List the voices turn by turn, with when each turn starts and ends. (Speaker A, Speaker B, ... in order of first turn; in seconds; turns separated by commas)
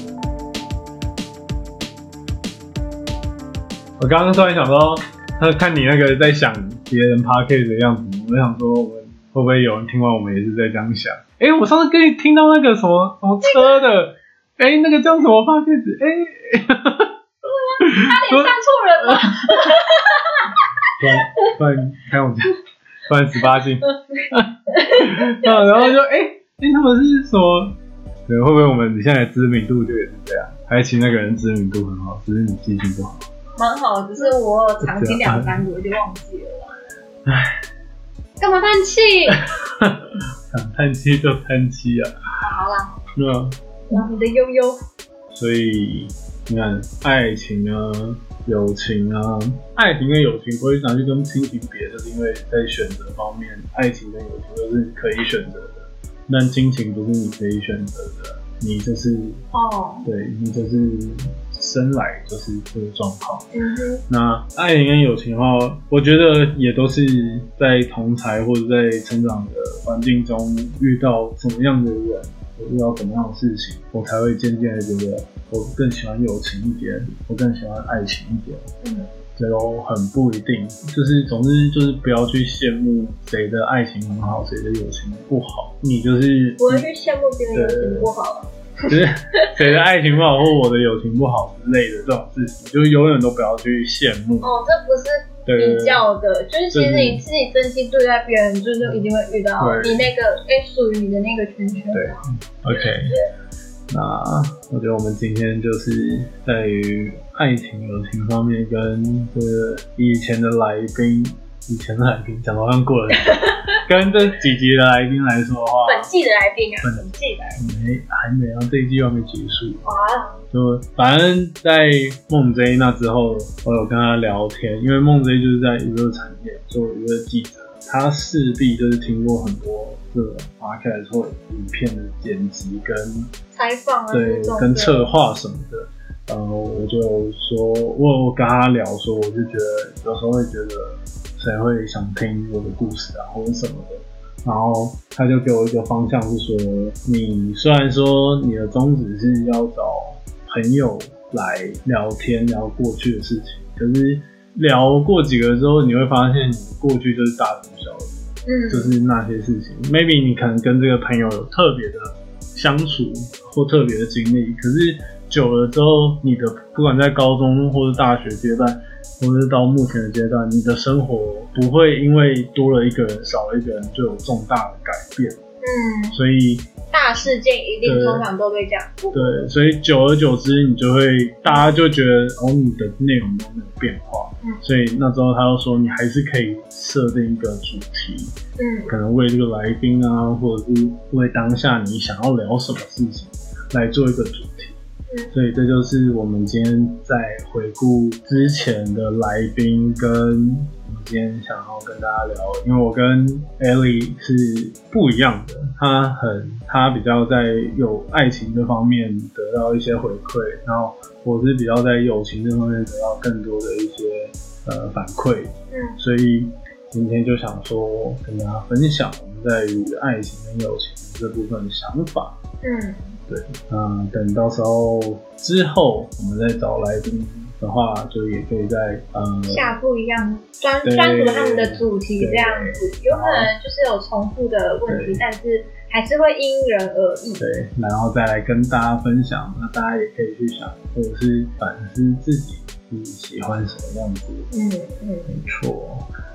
Speaker A: 4.0-17.1, Speaker B: 13.4-13.7, Speaker B: 17.4-21.5, Speaker A: 17.8-19.8, Speaker A: 21.0-27.8, Speaker B: 23.5-25.9, Speaker A: 28.3-33.2, Speaker B: 33.6-36.7, Speaker A: 34.8-35.6, Speaker A: 37.2-37.6, Speaker B: 38.4-39.5, Speaker A: 39.3-42.1, Speaker B: 42.4-43.0, Speaker A: 43.1-44.1, Speaker B: 43.9-44.8, Speaker A: 45.3-59.4, Speaker B: 59.5-60.1, Speaker A: 60.0-63.5, Speaker B: 63.5-64.0, Speaker A: 64.1-78.7, Speaker B: 78.8-79.1, Speaker A: 79.3-86.9, Speaker B: 86.6-89.7, Speaker A: 87.5-88.1, Speaker A: 88.9-94.5, Speaker B: 94.4-102.2, Speaker A: 95.5-96.0, Speaker A: 96.7-97.2, Speaker A: 99.6-100.1, Speaker A: 101.9-103.2, Speaker B: 102.7-103.2, Speaker A: 103.9-116.1, Speaker B: 113.1-113.8, Speaker B: 115.8-117.6, Speaker A: 116.8-119.8, Speaker B: 119.8-120.4, Speaker A: 120.5-133.3, Speaker B: 133.5-135.1, Speaker A: 134.1-175.4, Speaker B: 158.4-158.9, Speaker B: 175.6-176.2, Speaker A: 176.1-177.3, Speaker B: 176.9-179.5, Speaker A: 177.8-178.3, Speaker A: 179.1-188.3, Speaker B: 181.5-181.7, Speaker B: 188.6-188.9, Speaker A: 188.9-194.8, Speaker A: 195.3-222.4, Speaker B: 215.7-216.0, Speaker B: 222.6-223.2, Speaker A: 223.3-229.7, Speaker B: 229.5-237.4, Speaker A: 230.8-233.5, Speaker A: 234.9-235.2, Speaker A: 237.4-244.5, Speaker B: 244.5-245.4, Speaker A: 245.3-246.1